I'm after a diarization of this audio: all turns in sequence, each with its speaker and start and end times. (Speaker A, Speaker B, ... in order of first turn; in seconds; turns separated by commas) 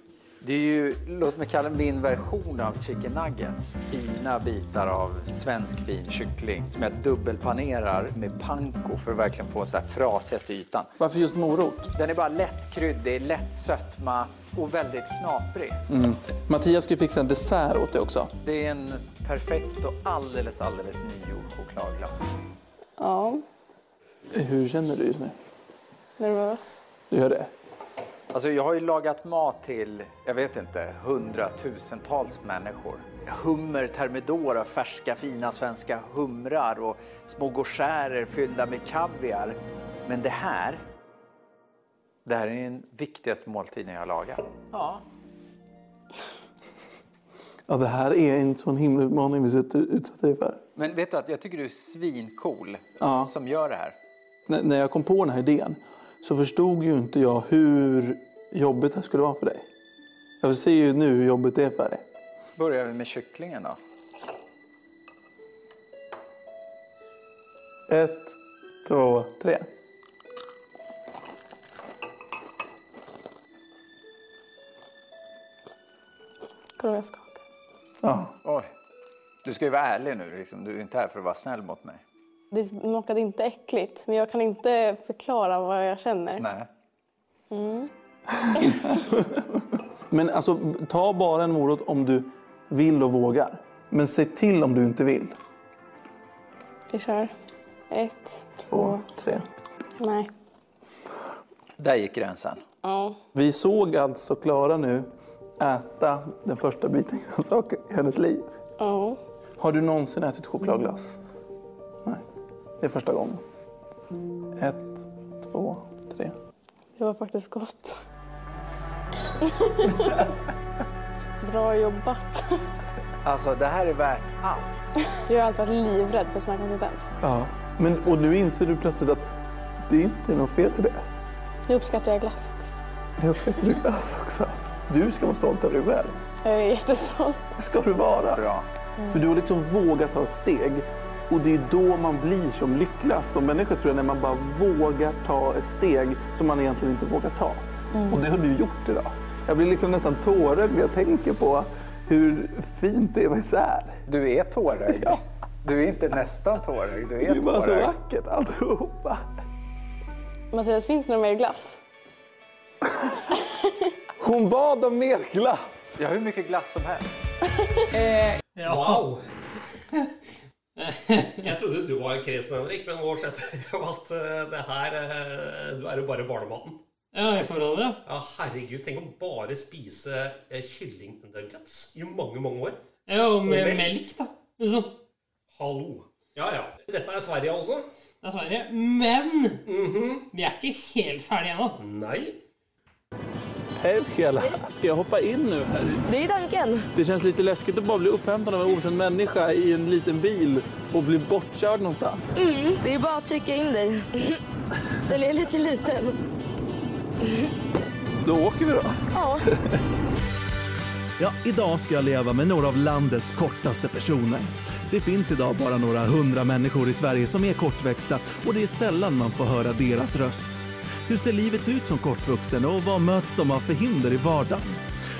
Speaker A: 0.4-10.9, Speaker B: 11.0-11.9, Speaker A: 11.9-15.8, Speaker B: 15.9-18.3, Speaker A: 18.4-22.1, Speaker C: 23.0-23.4, Speaker B: 24.3-25.4, Speaker C: 26.2-26.8, Speaker B: 27.1-27.5, Speaker A: 28.3-40.8, Speaker A: 42.2-45.0, Speaker B: 47.7-50.6, Speaker A: 50.8-54.0, Speaker B: 53.0-53.3, Speaker B: 54.5-59.7, Speaker B: 60.4-62.0, Speaker A: 62.5-63.8, Speaker B: 67.9-69.7, Speaker C: 76.8-77.4, Speaker B: 78.0-78.3, Speaker A: 78.4-78.7, Speaker A: 79.4-82.0, Speaker C: 82.5-86.4, Speaker A: 86.4-86.7, Speaker C: 87.5-87.9, Speaker B: 88.5-89.4, Speaker B: 90.1-95.3, Speaker C: 96.9-97.3, Speaker C: 97.9-99.0, Speaker B: 98.7-99.5, Speaker C: 100.0-100.3, Speaker A: 101.8-102.6, Speaker C: 102.8-103.2, Speaker B: 103.3-108.5, Speaker C: 108.8-109.2, Speaker B: 109.6-111.2, Speaker B: 112.8-113.4, Speaker B: 114.5-116.3, Speaker C: 117.0-118.0, Speaker C: 119.4-120.2, Speaker C: 121.4-122.6, Speaker A: 123.2-124.7, Speaker C: 125.2-127.1, Speaker B: 127.2-131.0, Speaker C: 131.7-132.7, Speaker B: 133.2-136.2, Speaker C: 136.4-137.4, Speaker B: 137.6-138.4, Speaker A: 138.3-138.7, Speaker B: 139.1-154.0, Speaker A: 154.1-157.9, Speaker B: 154.9-155.2, Speaker B: 157.2-159.2, Speaker C: 160.5-161.8, Speaker C: 163.3-163.7, Speaker B: 164.2-166.0, Speaker A: 166.0-167.2, Speaker D: 168.6-169.1, Speaker E: 168.6-169.2, Speaker E: 170.8-176.8, Speaker D: 177.1-178.0, Speaker E: 178.0-182.8, Speaker D: 183.1-184.9, Speaker E: 183.4-183.9, Speaker E: 185.5-187.8, Speaker D: 188.2-189.7, Speaker E: 189.7-190.3, Speaker D: 190.3-191.8, Speaker E: 191.7-192.4, Speaker B: 193.8-196.1, Speaker F: 196.0-196.9, Speaker B: 196.9-202.3, Speaker F: 202.3-204.4, Speaker F: 205.1-206.2, Speaker B: 208.2-209.8, Speaker F: 209.1-209.4, Speaker B: 211.2-224.8